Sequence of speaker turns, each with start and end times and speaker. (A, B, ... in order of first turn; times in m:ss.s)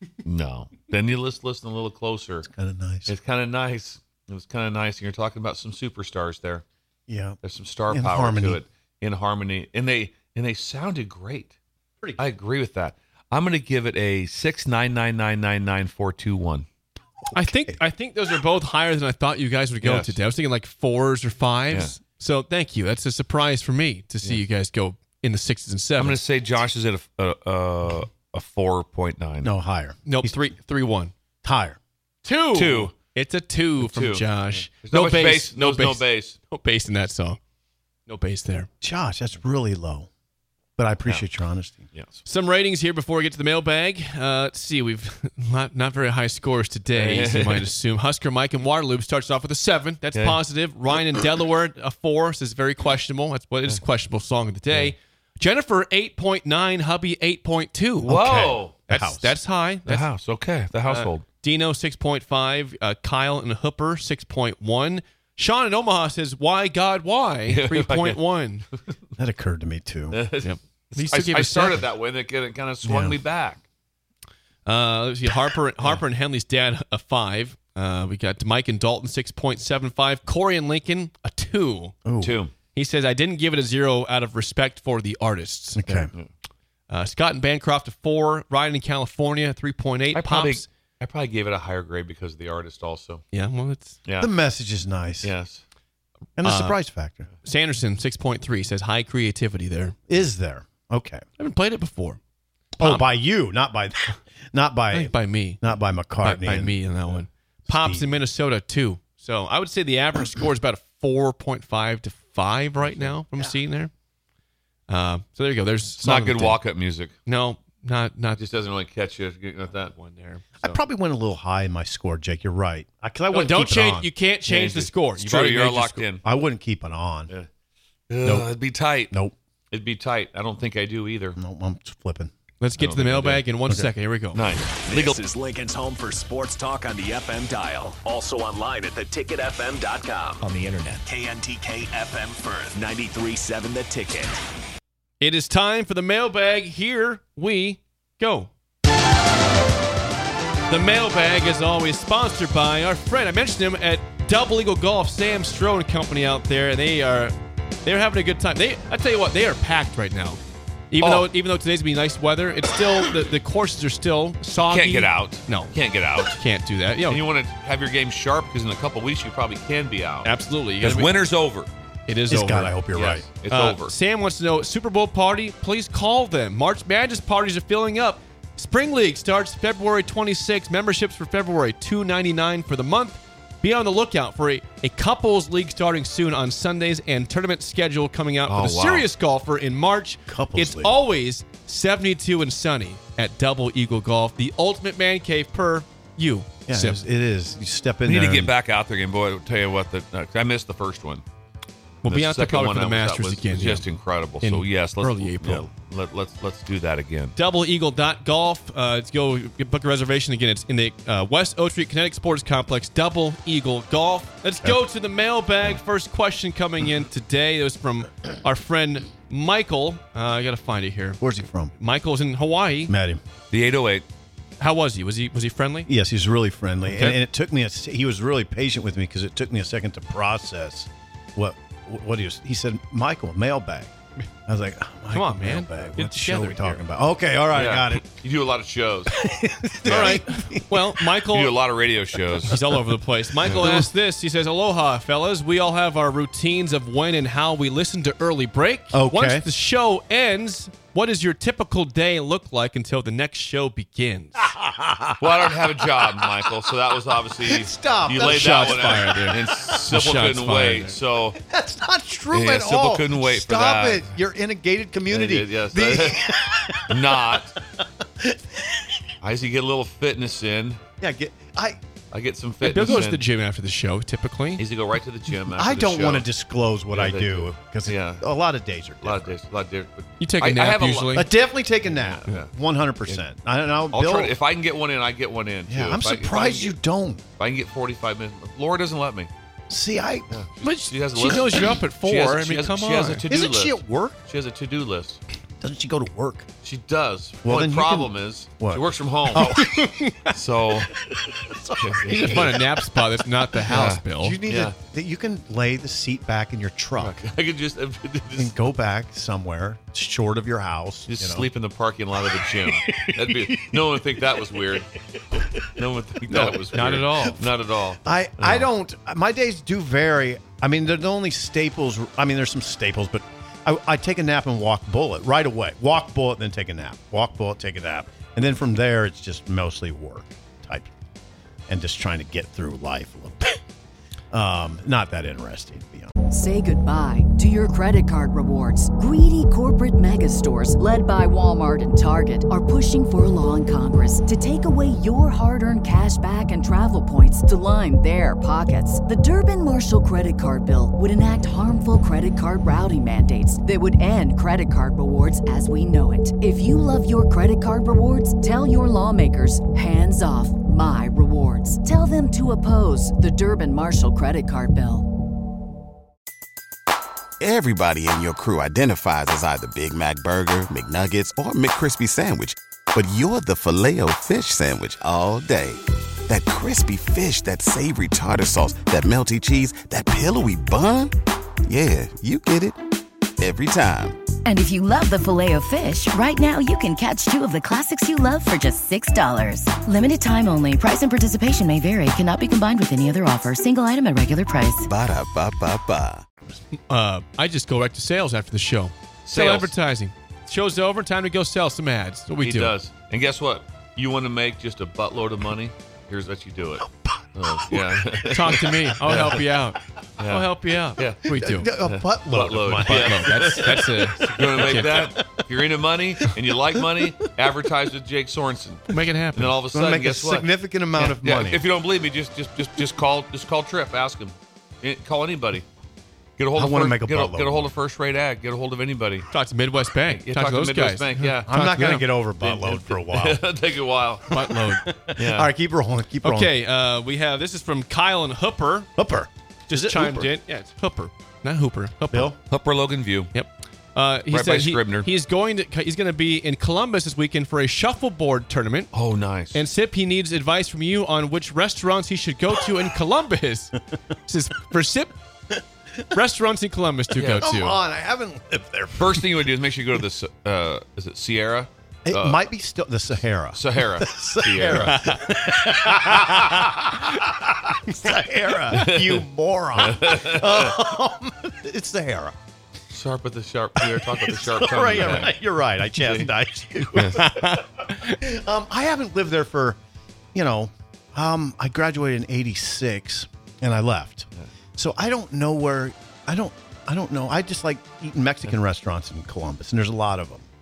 0:00.2-0:02.5 A
0:02.5-0:03.2 B
0:03.1-0:06.6 A
0:07.1-0:08.6 B
0:07.4-0:11.5 A
0:12.2-0:16.7 A
0:17.3-0:17.8 B
0:17.3-0:26.6 C
0:19.8-0:20.2 A
0:21.7-0:22.0 A
0:26.0-0:29.5 A
0:29.4-0:30.4 B
0:30.1-0:31.1 C
0:31.4-0:31.8 B
0:32.2-0:37.4 C
0:32.5-0:33.0 A
0:33.8-0:36.4 A
0:38.1-0:38.7 C
0:38.8-0:40.1 B
0:40.8-0:41.8 B
0:41.9-0:42.2 A
0:42.2-0:58.2 C
0:46.9-0:47.7 A
0:50.1-0:50.4 A
0:58.0-0:59.4 B
0:58.1-0:58.8 A
0:58.9-1:00.1 C
0:59.9-1:01.3 A
1:00.8-1:08.7 C
1:07.5-1:08.2 A
1:09.2-1:10.2 B
1:10.1-1:13.6 A
1:10.4-1:11.8 C
1:12.8-1:13.2 B
1:14.7-1:22.0 C
1:22.0-1:22.4 B
1:22.2-1:22.5 A
1:22.7-1:26.0 C
1:25.8-1:26.1 B
1:26.9-1:30.7 C
1:30.1-1:33.2 A
1:33.3-1:34.0 C
1:34.0-1:34.3 A
1:34.2-1:35.3 B
1:35.2-1:35.6 A
1:36.4-1:37.3 B
1:36.4-1:36.8 C
1:37.4-1:40.0 C
1:40.1-1:41.2 B
1:41.4-1:42.2 C
1:42.8-1:43.0 C
1:42.8-1:46.8 B
1:44.9-1:45.6 C
1:46.2-1:53.9 C
1:47.7-1:48.2 B
1:52.8-1:53.2 A
1:54.9-1:56.6 C
1:56.0-1:57.2 A
1:57.3-1:58.4 C
1:58.4-1:59.9 A
1:59.8-2:00.4 C
2:00.6-2:04.1 B
2:03.3-2:06.1 C
2:04.4-2:06.2 A
2:06.2-2:07.3 B
2:08.1-2:09.2 A
2:08.2-2:08.5 B
2:09.1-2:09.3 B
2:09.7-2:11.4 A
2:11.4-2:12.3 B
2:12.6-2:14.5 C
2:12.8-2:13.7 A
2:14.3-2:15.2 A
2:14.8-2:24.4 D
2:25.2-2:28.5 C
2:30.7-2:40.4 C
2:40.9-2:47.2 C
2:41.0-2:41.3 A
2:44.6-2:46.4 A
2:47.1-2:51.7 A
2:50.2-2:51.1 C
2:52.1-2:52.7 C
2:52.3-2:53.3 B
2:52.9-2:53.9 A
2:53.5-3:17.0 C
3:08.5-3:09.1 A
3:10.3-3:11.0 B
3:16.7-3:18.5 B
3:18.0-3:21.2 A
3:22.0-3:27.4 A
3:22.0-3:23.9 C
3:24.4-3:25.7 C
3:27.4-3:42.9 C
3:41.2-3:41.7 B
3:42.9-3:43.2 B
3:43.5-3:44.0 A
3:44.6-3:45.9 C
3:45.9-3:53.9 B
3:46.9-3:47.2 C
3:54.5-3:58.0 B
3:55.1-3:56.8 C
3:57.5-3:59.1 A
3:59.1-4:01.0 B
3:59.9-4:00.2 A
3:59.9-4:01.6 C
4:01.3-4:02.6 A
4:02.5-4:14.5 C
4:03.4-4:03.9 B
4:08.9-4:09.4 B
4:14.4-4:16.5 B
4:15.2-4:21.4 A
4:17.4-4:19.1 B
4:18.2-4:21.0 C
4:21.4-4:29.0 B
4:22.3-4:24.1 A
4:25.1-4:26.3 A
4:26.9-4:27.6 A
4:29.2-4:30.8 A
4:31.0-4:31.8 B
4:32.1-4:33.2 A
4:32.6-4:34.6 C
4:34.6-4:36.3 A
4:35.5-4:39.4 B
4:36.9-4:38.3 A
4:39.0-4:41.3 A
4:40.2-4:41.3 C
4:41.1-4:44.4 B
4:41.8-4:42.5 A
4:43.9-4:46.8 A
4:45.7-4:47.2 B
4:47.4-4:49.3 A
4:49.7-4:50.4 B
4:50.3-4:55.2 A
4:50.6-4:53.2 C
4:53.3-4:54.2 B
4:55.6-4:56.5 B
4:56.6-4:59.5 A
4:57.4-4:59.9 B
4:59.4-5:00.3 C
5:00.3-5:00.9 A
5:01.1-5:02.8 B
5:01.8-5:02.7 A
5:02.1-5:04.4 C
5:03.7-5:04.7 A
5:03.7-5:07.2 B
5:07.0-5:08.6 A
5:08.4-5:11.5 B
5:11.1-5:15.0 A
5:12.7-5:13.8 B
5:15.6-5:18.7 A
5:16.3-5:16.6 B
5:16.7-5:17.4 C
5:18.0-5:30.9 B
5:31.7-5:33.6 B
5:34.3-5:36.1 B
5:36.3-6:05.1 E
6:07.4-6:21.1 F
6:21.7-6:22.8 F
6:23.4-6:24.2 F
6:24.5-6:34.8 G
6:34.8-6:36.2 F
6:36.9-6:42.7 C
6:39.2-6:39.7 A
6:42.4-6:49.5 A
6:46.9-6:48.1 B
6:48.3-6:51.7 C
6:50.2-6:50.5 A
6:51.0-6:51.2 A
6:51.4-6:55.4 B
6:51.8-7:00.5 A
6:52.8-6:55.1 C
6:58.9-6:59.6 C
6:59.7-7:01.6 B
7:01.0-7:05.6 A
7:06.4-7:09.3 A
7:06.6-7:07.7 B
7:09.3-7:12.0 C
7:10.1-7:11.8 A
7:11.5-7:13.4 B
7:12.4-7:14.3 A
7:14.3-7:14.9 C
7:14.3-7:16.6 B
7:15.2-7:15.5 A
7:16.2-7:18.9 C
7:19.0-7:20.3 B
7:19.7-7:22.3 C
7:22.1-7:22.4 B
7:22.5-7:23.3 A
7:23.3-7:28.9 C
7:24.3-7:25.1 A
7:28.9-7:29.6 A
7:29.5-7:35.1 C
7:36.2-7:37.8 C
7:37.2-7:37.5 A
7:37.4-7:39.4 B
7:39.0-7:42.4 A
7:42.1-7:52.4 B
7:43.5-7:45.0 A
7:45.7-7:46.3 C
7:48.7-7:49.2 A
7:49.8-7:50.7 A
7:52.9-7:55.4 A
7:53.8-7:59.8 B
7:56.0-7:56.3 A
7:57.0-7:57.3 A
7:57.0-7:58.2 C
8:00.3-8:10.5 B